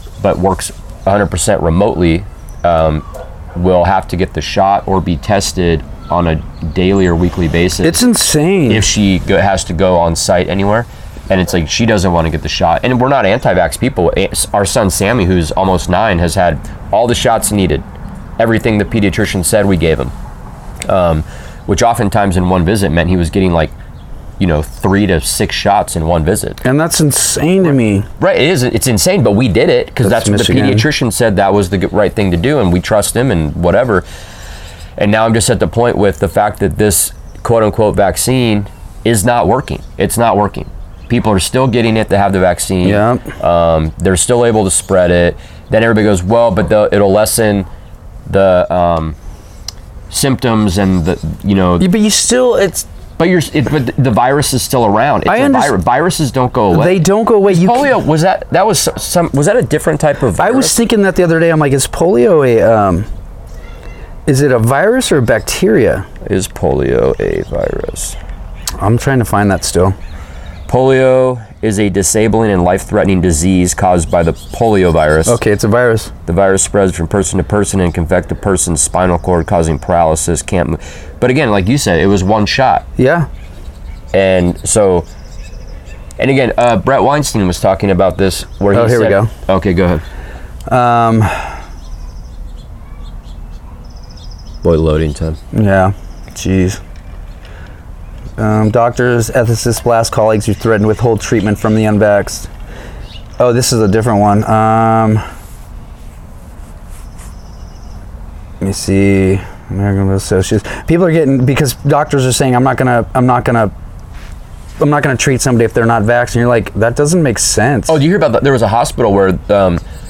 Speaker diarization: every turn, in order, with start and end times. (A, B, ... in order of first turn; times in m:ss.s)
0:00.2-0:08.0 A
0:07.8-0:08.9 B
0:08.7-0:17.8 A
0:18.4-0:20.1 A
0:20.8-0:23.7 A
0:24.4-0:26.6 A
0:26.6-0:28.1 B
0:28.2-0:34.0 A
0:30.0-0:30.9 B
0:35.0-0:47.7 A
0:42.8-0:43.3 B
0:48.2-0:49.2 A
0:50.1-0:51.9 A
0:51.8-0:52.9 B
0:53.2-1:00.8 A
0:55.2-0:55.7 B
0:56.7-0:57.9 B
1:00.4-1:03.1 B
1:04.3-1:06.1 B
1:06.2-1:08.2 A
1:08.8-1:09.9 B
1:10.7-1:15.4 A
1:15.2-1:16.1 B
1:16.3-1:22.8 A
1:23.0-1:23.3 B
1:24.1-1:25.1 A
1:26.2-1:30.0 A
1:28.7-1:29.3 B
1:30.7-1:31.6 B
1:34.6-1:35.4 A
1:35.5-1:36.8 B
1:38.4-1:42.5 B
1:43.4-1:45.2 B
1:48.6-1:53.7 B
1:54.8-1:58.0 B
1:57.9-1:59.8 A